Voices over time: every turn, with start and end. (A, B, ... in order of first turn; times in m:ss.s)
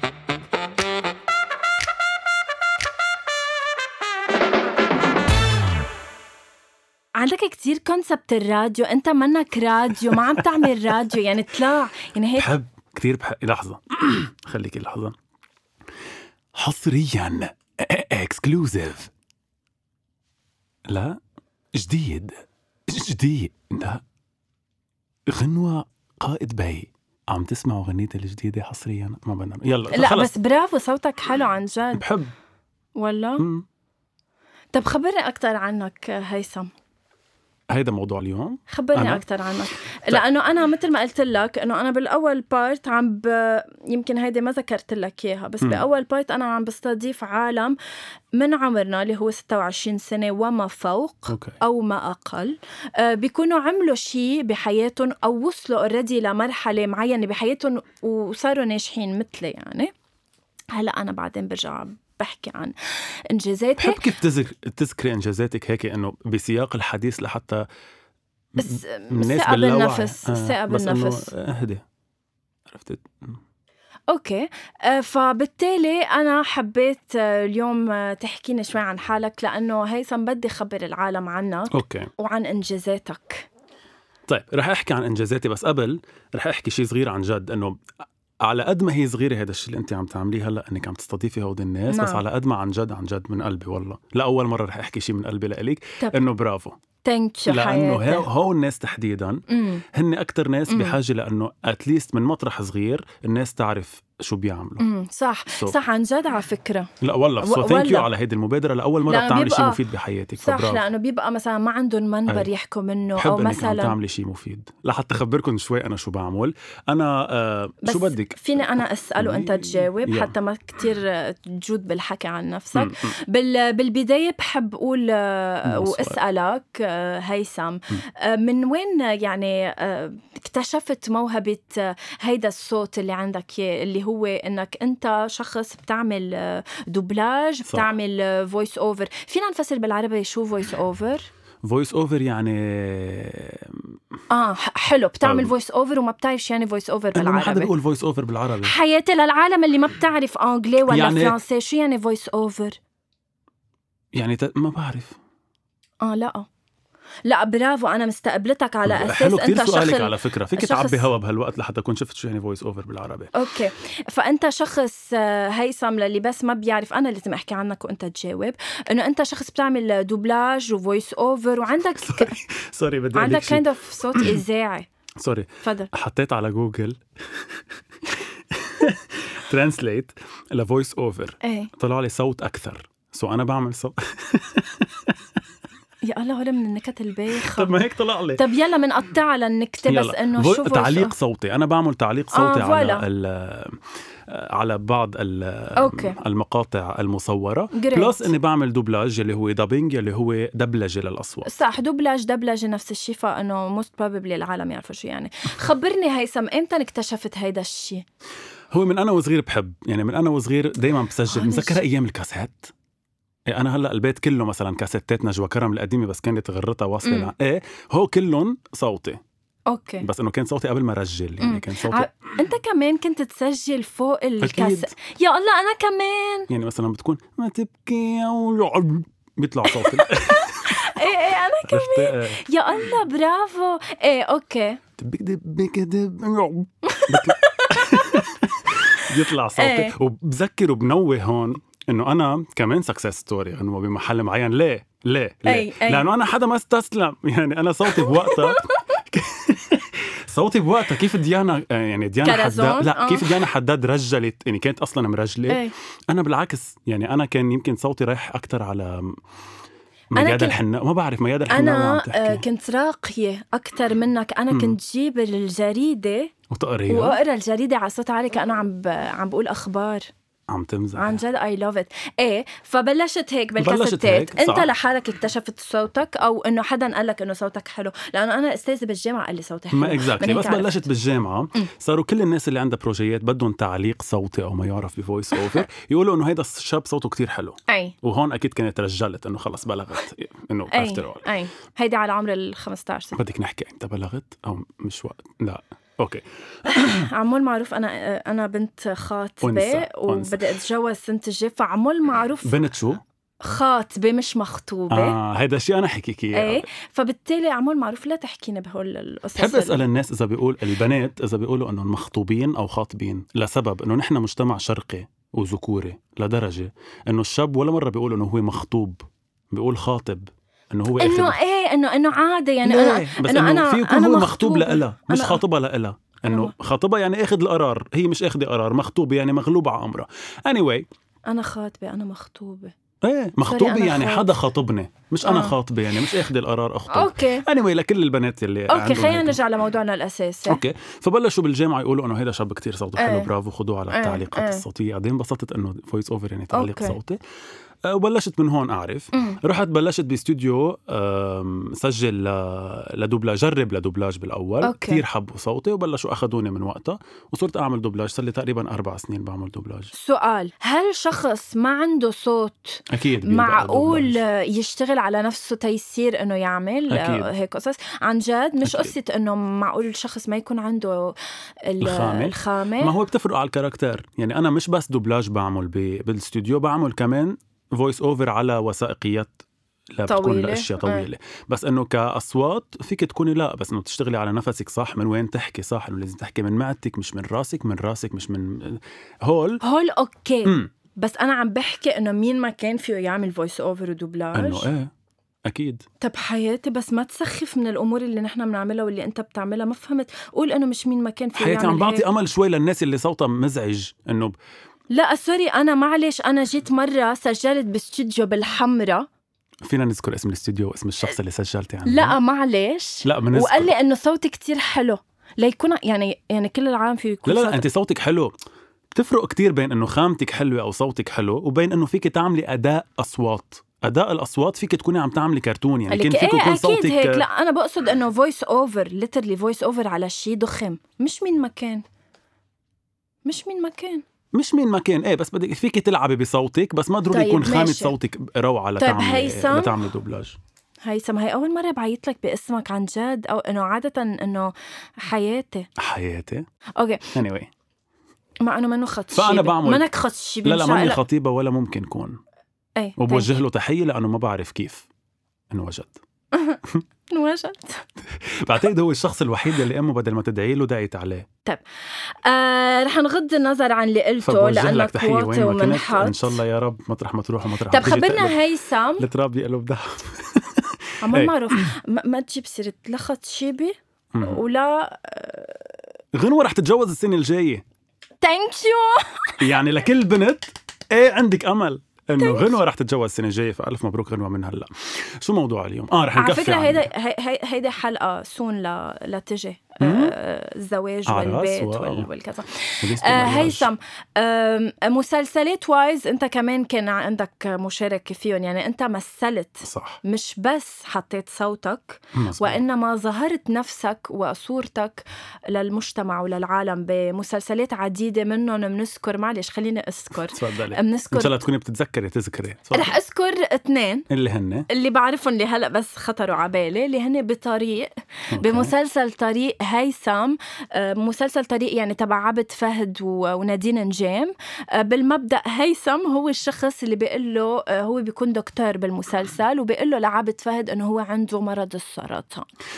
0:07.2-0:12.5 A
0:12.4-0:15.2 B
0:16.5-0:19.1 B
0:20.9-0:21.2 B
0:21.7-0:24.0 B
0:25.3-0:30.3 B
0:29.9-0:32.0 A
0:31.9-0:32.3 B
0:33.0-0:33.5 A
0:33.4-0:33.7 B
0:34.7-0:36.7 A
0:37.7-0:39.3 B
0:38.7-0:47.8 A
0:48.4-0:59.9 A
0:51.3-0:51.6 B
1:00.7-1:04.1 A
1:03.8-1:07.7 B
1:08.6-1:11.8 B
1:08.6-1:11.3 A
1:12.7-1:13.4 B
1:14.1-1:23.5 A
1:21.7-1:22.1 B
1:24.3-1:27.8 B
1:28.4-1:36.8 B
1:31.9-1:32.2 A
1:37.0-1:38.2 A
1:37.5-1:44.9 B
1:39.5-1:39.8 A
1:40.7-1:41.0 A
1:44.8-1:46.9 A
1:45.5-1:45.8 B
1:47.0-1:50.8 B
1:47.4-1:48.1 A
1:49.1-1:49.8 A
1:50.4-1:54.0 A
1:53.2-1:58.4 B
1:57.8-2:21.3 A
1:59.2-2:00.3 B
2:02.8-2:03.2 B
2:05.7-2:06.2 B
2:21.6-2:24.0 B
2:24.3-2:27.7 A
2:25.2-2:25.5 B
2:27.1-2:28.7 B
2:28.6-2:32.8 A
2:30.9-2:31.4 B
2:34.1-2:35.2 B
2:36.0-2:36.5 A
2:37.2-2:41.1 A
2:38.9-2:43.3 B
2:43.3-2:52.4 A
2:52.0-2:54.4 B
2:53.2-2:54.9 A
2:55.2-3:05.2 B
2:55.6-2:55.9 A
3:01.4-3:01.7 A
3:06.0-3:07.8 A
3:07.3-3:08.5 B
3:08.4-3:11.1 A
3:09.9-3:21.5 B
3:12.3-3:13.0 A
3:15.8-3:16.2 A
3:17.7-3:18.3 A
3:21.4-3:28.0 A
3:28.7-3:32.7 B
3:31.3-3:31.8 A
3:33.5-3:39.2 B
3:37.0-3:37.3 A
3:39.7-3:40.1 A
3:40.0-3:42.1 B
3:41.4-3:46.5 A
3:44.4-3:44.9 B
3:46.5-3:52.4 B
3:49.7-3:54.8 A
3:55.0-4:19.2 B
3:56.8-3:58.1 A
3:58.9-3:59.9 A
4:05.5-4:06.1 A
4:07.9-4:09.0 A
4:12.2-4:13.5 A
4:15.5-4:15.7 A
4:20.1-4:22.4 B
4:20.2-4:20.6 A
4:21.5-4:26.3 A
4:24.5-4:24.8 B
4:26.5-4:27.2 B
4:26.9-4:30.1 A
4:30.5-4:31.2 B
4:31.0-4:40.8 A
4:33.6-4:34.7 B
4:39.7-4:51.3 B
4:47.7-4:48.0 A
4:50.7-4:53.2 A
4:53.2-4:57.1 B
4:56.7-5:02.6 A
4:59.4-5:00.4 B
5:02.4-5:03.0 B
5:03.4-5:05.2 A
5:04.9-5:06.7 B
5:06.3-5:09.8 A
5:09.4-5:21.4 B
5:21.0-5:25.4 A
5:22.6-5:30.9 B
5:26.3-5:26.5 A
5:31.3-5:32.7 A
5:33.0-5:39.4 B
5:33.4-5:34.3 A
5:35.2-5:35.6 A
5:36.9-5:37.5 A
5:38.7-5:40.6 A
5:40.5-5:47.2 B
5:43.0-5:43.3 A
5:43.9-5:44.6 A
5:46.5-5:47.0 A
5:47.8-5:59.9 B
5:49.1-5:49.4 A
5:54.6-5:55.0 A
5:59.9-6:13.0 A
6:02.9-6:04.2 B
6:06.9-6:07.3 B
6:08.6-6:08.9 B
6:11.8-6:19.4 B
6:20.0-6:29.6 B
6:20.1-6:21.1 A
6:29.6-6:34.7 A
6:30.4-6:30.7 B
6:34.4-6:34.9 B
6:35.4-6:35.9 B
6:36.0-6:42.1 A
6:41.4-6:44.4 B
6:44.9-6:49.1 A
6:49.6-6:52.2 B
6:51.9-6:57.6 A
6:53.0-6:53.7 B
6:57.3-6:58.3 B
6:58.9-7:07.2 B
7:05.9-7:11.8 A
7:13.2-7:14.0 A
7:14.3-7:20.4 B
7:17.1-7:18.0 A
7:18.8-7:19.8 A
7:20.9-7:25.7 A
7:25.8-7:26.4 B
7:26.8-7:27.1 A
7:27.1-7:27.5 B
7:28.4-7:31.0 A
7:29.1-7:29.9 B
7:30.4-7:32.2 B
7:32.8-7:33.3 A
7:33.0-7:34.9 B
7:35.5-7:36.0 B
7:36.3-7:37.8 A
7:38.1-7:41.3 B
7:41.5-7:46.4 A
7:44.2-7:48.4 B
7:47.7-7:49.1 A
7:49.0-7:51.6 B
7:51.0-7:55.7 A
7:54.1-7:54.4 B
7:56.1-7:57.6 B
7:58.2-7:59.4 A
7:59.4-8:06.9 B
8:02.2-8:02.6 A
8:06.2-8:31.4 A
8:09.8-8:10.2 B
8:11.1-8:12.1 B
8:12.8-8:13.7 B
8:19.6-8:20.0 B
8:22.2-8:22.6 B
8:30.3-8:33.0 B
8:32.7-8:34.1 A
8:34.1-8:34.7 B
8:34.7-8:52.5 A
8:38.3-8:38.7 B